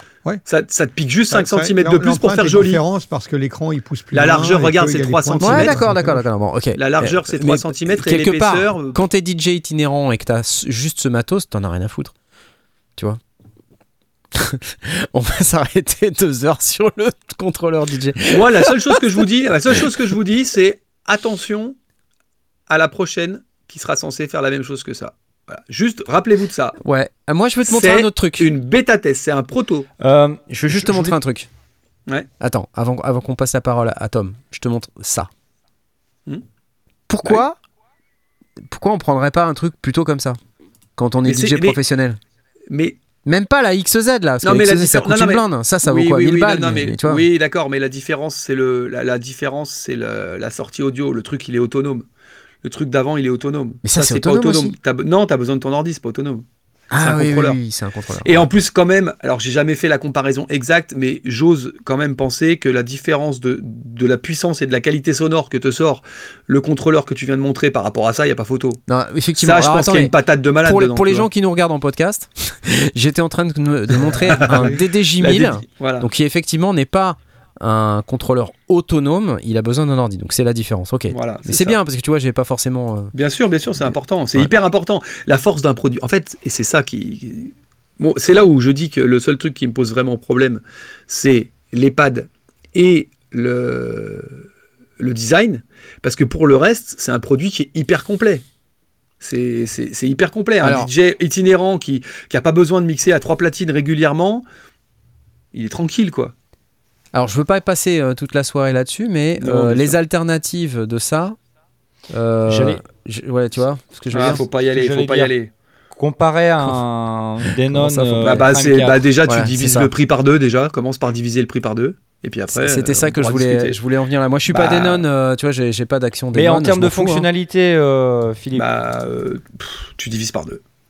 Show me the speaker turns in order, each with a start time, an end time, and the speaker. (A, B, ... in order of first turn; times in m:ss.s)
0:00.5-0:02.8 A
0:01.3-0:06.2 B
0:04.1-0:05.9 A
0:05.4-0:12.1 C
0:06.8-0:09.0 A
0:14.3-0:19.2 C
0:18.3-0:21.8 A
0:22.7-0:26.8 A
0:26.8-0:28.5 C
0:27.7-0:29.9 A
0:30.0-0:31.2 D
0:30.5-0:31.5 C
0:32.4-0:35.3 C
0:37.1-0:37.6 C
0:38.7-0:40.4 C
0:41.0-0:42.2 C
0:41.2-0:41.8 A
0:42.7-0:43.0 A
0:43.2-0:47.2 C
0:44.4-0:52.0 A
0:52.6-0:56.4 A
0:53.8-0:54.8 C
0:56.9-0:58.4 C
0:57.0-0:57.6 A
0:58.2-1:08.8 A
1:08.9-1:10.1 C
1:09.4-1:11.3 A
1:10.6-1:23.1 C
1:14.0-1:16.1 A
1:21.1-1:21.8 A
1:23.1-1:34.4 A
1:23.8-1:24.5 C
1:35.0-1:38.4 A
1:39.2-1:44.4 A
1:40.6-1:40.9 C
1:45.5-1:46.3 A
1:47.1-1:51.4 C
1:49.4-1:50.0 A
1:52.1-1:54.4 C
1:52.5-1:52.8 D
1:54.1-1:55.5 A
1:54.7-1:55.3 D
1:56.0-1:59.0 D
1:57.5-1:58.5 C
1:58.2-2:03.8 A
1:59.3-1:59.9 C
2:02.5-2:07.3 C
2:04.5-2:05.0 A
2:06.3-2:08.7 D
2:08.5-2:10.6 A